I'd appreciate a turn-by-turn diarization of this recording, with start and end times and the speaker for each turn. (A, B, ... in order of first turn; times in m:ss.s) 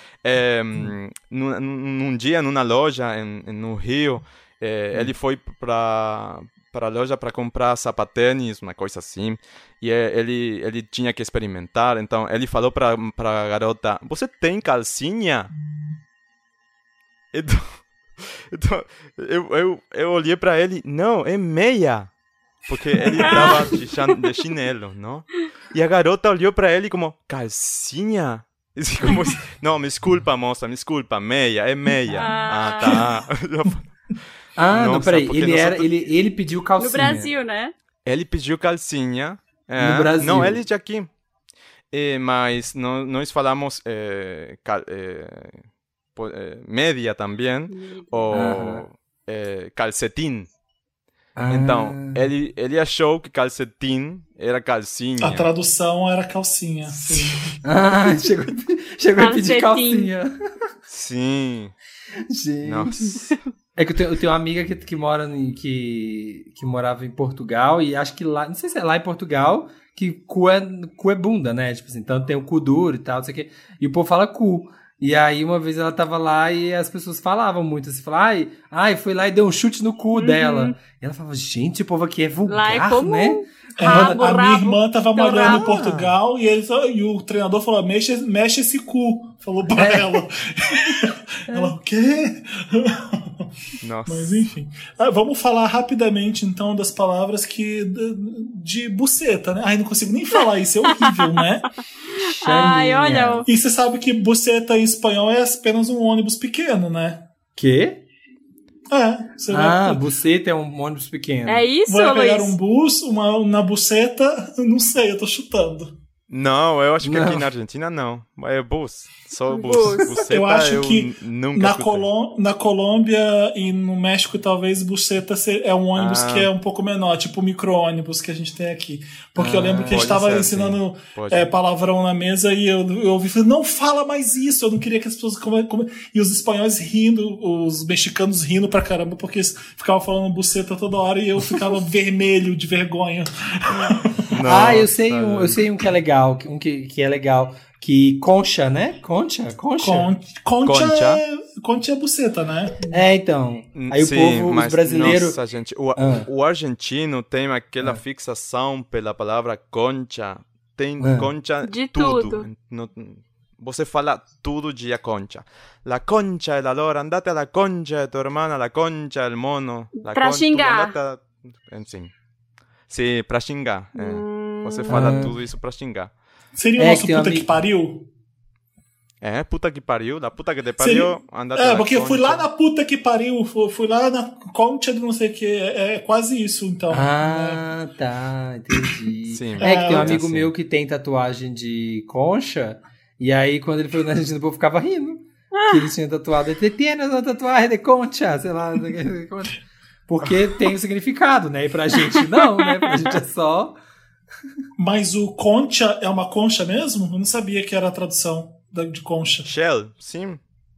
0:00.2-0:15.5 A
0:17.3-0:22.1 A
0:22.7-0:33.9 A
0:23.2-0:23.6 B
0:32.2-0:33.0 B
0:34.6-0:37.3 C
0:34.7-0:35.9 A
0:36.8-0:37.7 B
0:38.0-0:41.1 A
0:39.8-0:40.6 C
0:41.9-0:45.6 A
0:46.1-0:50.5 A
0:47.7-0:48.3 B
0:48.3-0:48.8 C
0:51.4-0:52.2 C
0:51.5-0:55.5 A
0:55.2-0:57.6 D
0:56.8-0:57.6 A
0:57.6-1:00.4 C
0:59.2-1:00.1 B
1:00.9-1:01.7 A
1:02.3-1:24.2 C
1:02.6-1:03.2 A
1:20.1-1:20.7 B
1:22.5-1:25.6 B
1:23.8-1:33.4 D
1:25.4-1:26.1 A
1:29.8-1:30.2 C
1:31.5-1:31.7 C
1:33.8-1:34.4 A
1:34.0-1:41.7 D
1:41.0-1:41.3 B
1:42.2-1:43.4 C
1:42.4-1:43.5 B
1:43.4-1:47.2 D
1:47.6-1:48.0 C
1:48.9-1:50.0 D
1:49.5-1:51.7 C
1:51.5-1:52.6 B
1:51.9-1:56.0 D
1:56.3-2:02.1 A
1:57.0-1:57.5 C
1:59.5-2:00.2 B
2:00.2-2:24.2 D
2:05.9-2:06.5 A
2:09.4-2:10.2 C
2:09.9-2:11.5 A
2:23.8-2:25.6 A
2:24.4-2:30.1 C
2:29.8-2:33.0 D
2:30.6-2:31.2 A
2:32.9-2:35.4 C
2:33.7-2:52.1 A
2:36.0-2:36.3 C
2:41.0-2:41.3 C
2:41.6-2:42.5 B
2:50.0-2:50.9 B
2:52.9-2:56.1 A
2:53.9-2:55.1 B
2:54.9-2:55.4 C
2:56.6-2:58.1 D
2:56.8-2:57.5 C
2:59.2-3:02.5 A
3:00.8-3:07.6 D
3:06.9-3:23.8 C
3:09.3-3:10.5 A
3:09.6-3:10.1 D
3:15.5-3:15.8 B
3:24.8-3:29.5 D
3:29.4-3:30.4 A